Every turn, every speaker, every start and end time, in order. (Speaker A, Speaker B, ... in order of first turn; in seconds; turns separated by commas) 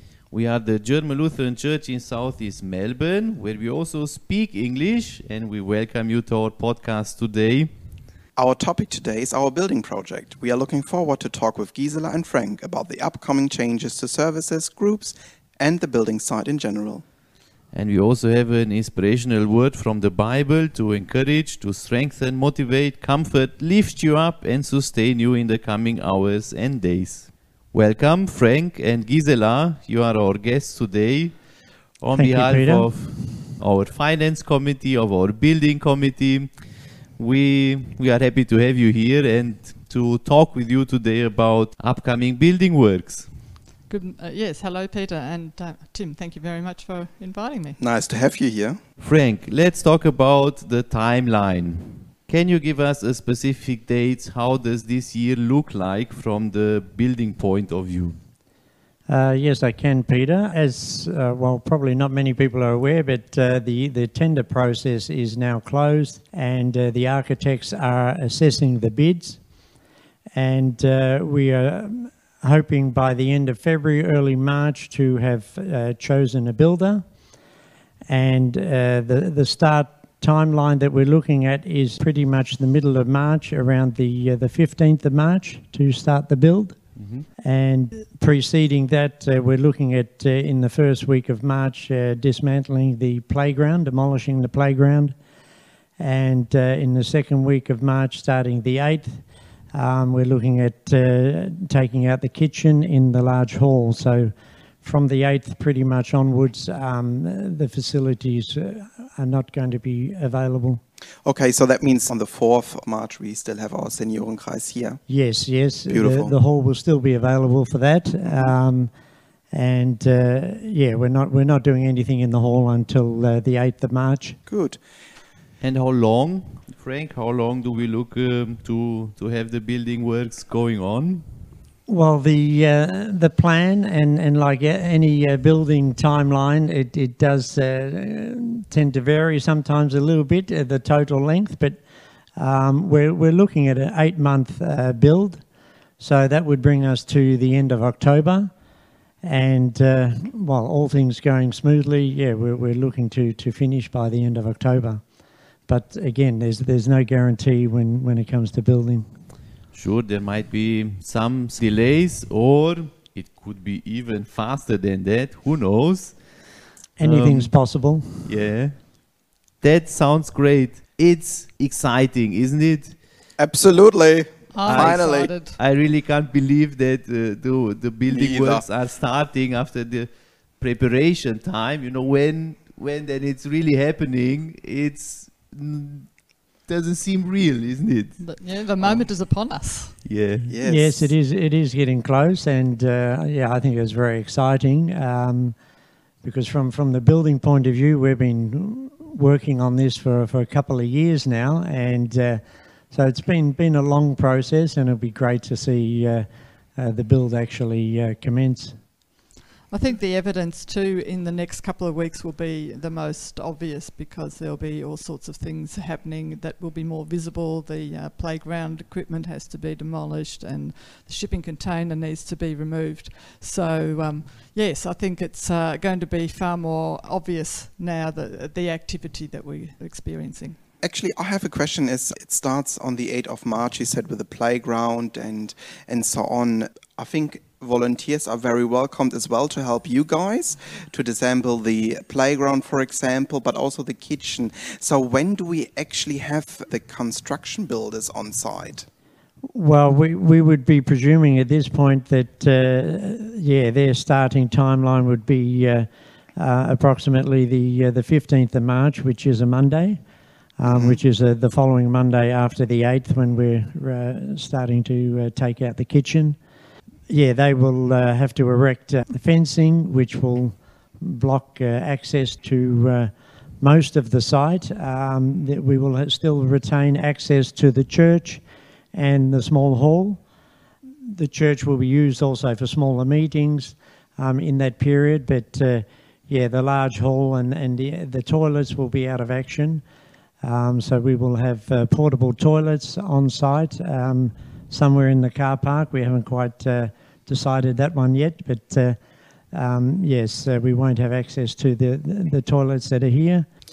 Speaker A: 0.3-7.7, Speaker B: 8.4-17.0, Speaker A: 17.7-31.4, Speaker A: 32.0-36.5, Speaker C: 32.1-33.4, Speaker A: 37.2-43.3, Speaker D: 43.9-47.8, Speaker B: 47.8-48.8, Speaker A: 49.0-58.1, Speaker C: 59.1-69.4, Speaker C: 70.3-77.0, Speaker C: 78.1-95.2, Speaker A: 87.0-87.3, Speaker C: 96.0-110.8, Speaker B: 111.2-115.0, Speaker C: 115.1-118.9, Speaker B: 115.9-116.4, Speaker B: 118.2-118.5, Speaker C: 119.5-124.4, Speaker B: 124.5-124.8, Speaker A: 125.6-131.2, Speaker C: 131.9-141.8, Speaker C: 142.4-145.4, Speaker C: 146.0-148.5, Speaker C: 149.2-155.1, Speaker C: 155.7-159.1, Speaker A: 159.7-166.2, Speaker C: 167.0-168.3, Speaker A: 167.0-167.7, Speaker A: 168.2-169.0, Speaker A: 169.6-173.0, Speaker B: 173.4-175.3, Speaker D: 174.5-175.6, Speaker A: 174.7-188.2, Speaker B: 178.1-178.7, Speaker D: 188.2-189.9, Speaker B: 188.8-189.1, Speaker A: 190.0-190.5, Speaker B: 190.5-191.2, Speaker C: 190.6-195.6, Speaker C: 196.2-206.2, Speaker C: 206.8-208.8, Speaker D: 209.7-230.6, Speaker B: 230.8-248.9, Speaker C: 249.5-260.0, Speaker C: 260.6-266.4, Speaker B: 260.6-261.0, Speaker C: 267.1-278.4, Speaker C: 278.9-280.2, Speaker C: 281.1-289.8, Speaker C: 290.4-299.0, Speaker C: 299.5-303.5